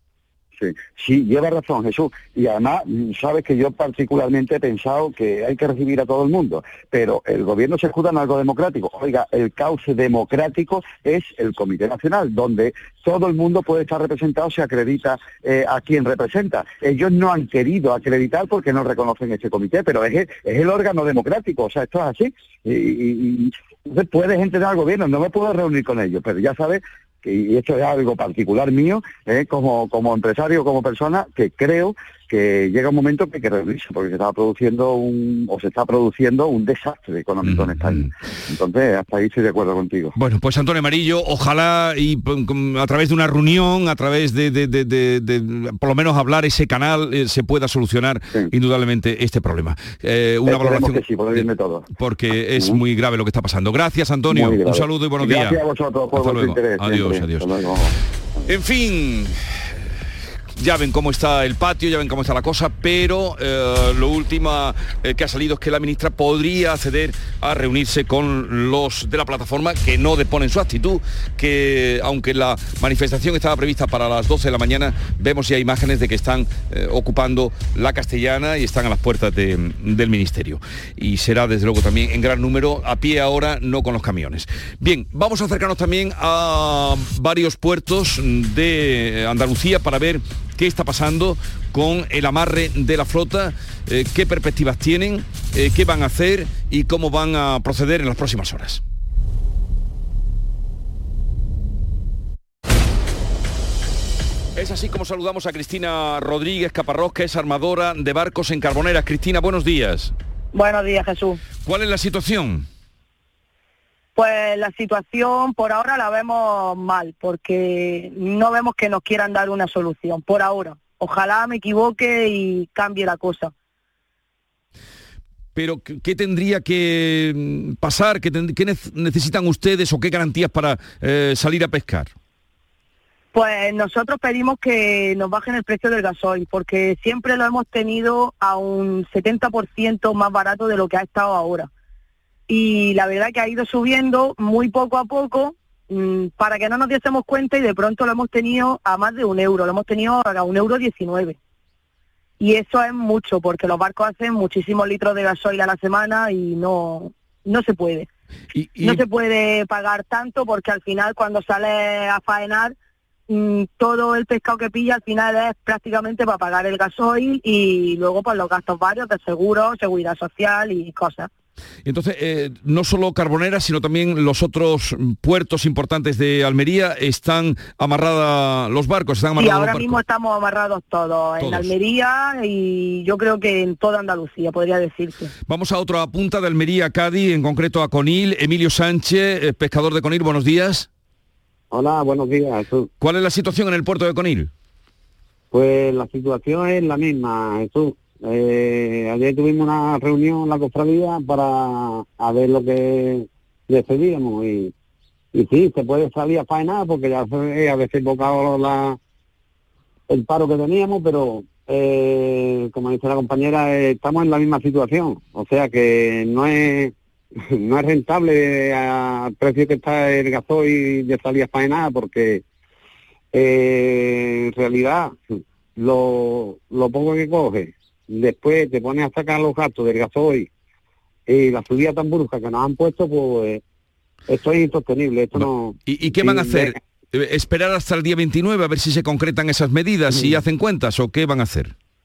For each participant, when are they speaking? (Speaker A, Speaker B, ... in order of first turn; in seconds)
Speaker A: 0.6-40.1, 50.5-51.9, 52.5-52.8, 54.3-58.5
Speaker B: 37.4-38.1, 40.1-55.6, 56.1-57.5, 58.5-59.4, 60.6-98.8, 104.5-110.1, 111.6-112.6, 125.5-132.1, 158.5-159.1, 171.8-180.0, 181.4-181.7, 185.5-190.9, 193.0-194.5, 235.4-241.7
Speaker C: 110.5-111.4, 114.2-123.5, 133.3-141.7, 142.5-151.3, 152.4-158.1, 158.8-162.7, 163.3-171.3, 179.3-185.3
Speaker D: 191.7-192.9, 195.5-204.7, 205.3-209.0, 210.1-222.4, 223.3-230.5, 231.3-233.6, 234.3-236.7